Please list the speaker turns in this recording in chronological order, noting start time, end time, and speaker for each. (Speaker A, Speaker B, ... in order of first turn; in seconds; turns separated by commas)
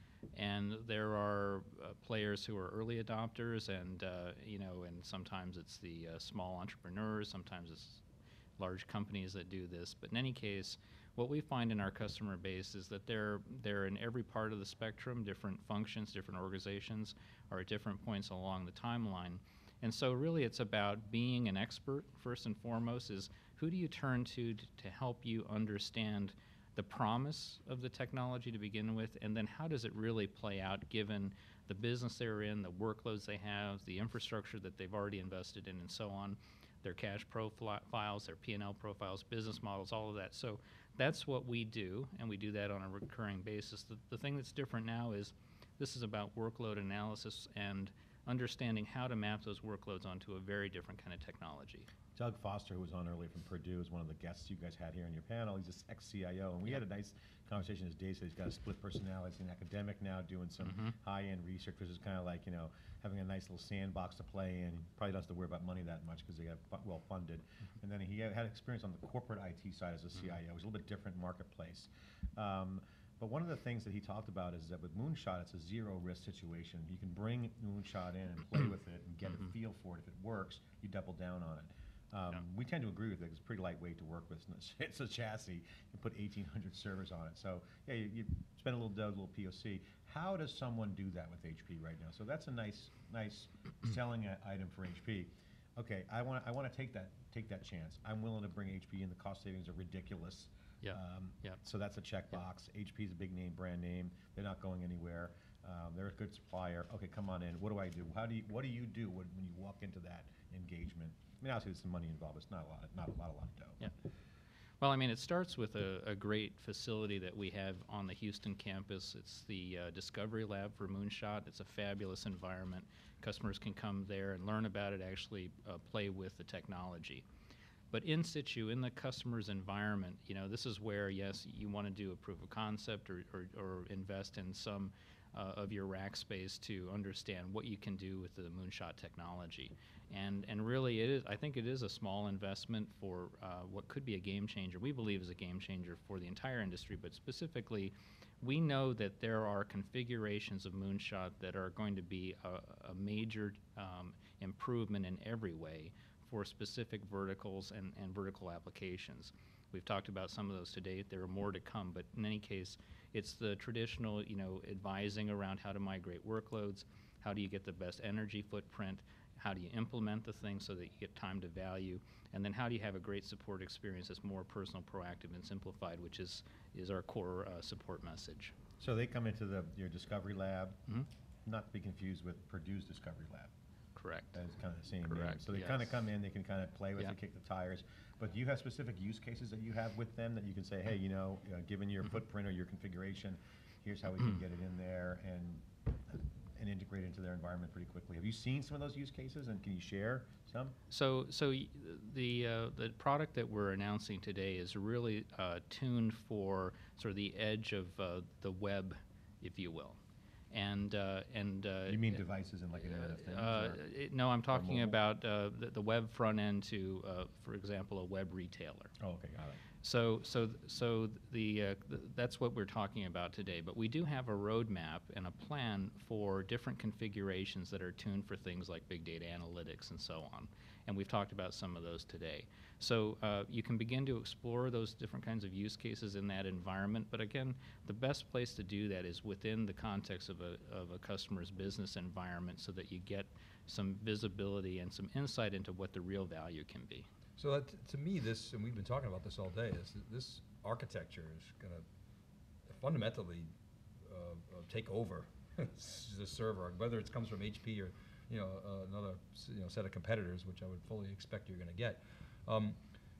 Speaker A: 0.3-8.0, Speaker A: 8.6-51.9, Speaker B: 52.2-113.9, Speaker A: 60.6-60.9, Speaker A: 100.8-101.6, Speaker A: 114.8-127.2, Speaker A: 127.9-178.6, Speaker B: 178.8-180.8, Speaker B: 181.5-183.5, Speaker A: 184.0-184.4, Speaker B: 184.3-200.8, Speaker A: 185.1-186.0, Speaker A: 200.9-210.0, Speaker A: 210.5-212.2, Speaker B: 211.9-213.8, Speaker A: 212.8-218.9, Speaker B: 214.5-215.0, Speaker B: 219.0-219.6, Speaker A: 219.8-247.1, Speaker C: 247.4-251.8, Speaker C: 252.7-253.5, Speaker C: 254.0-262.8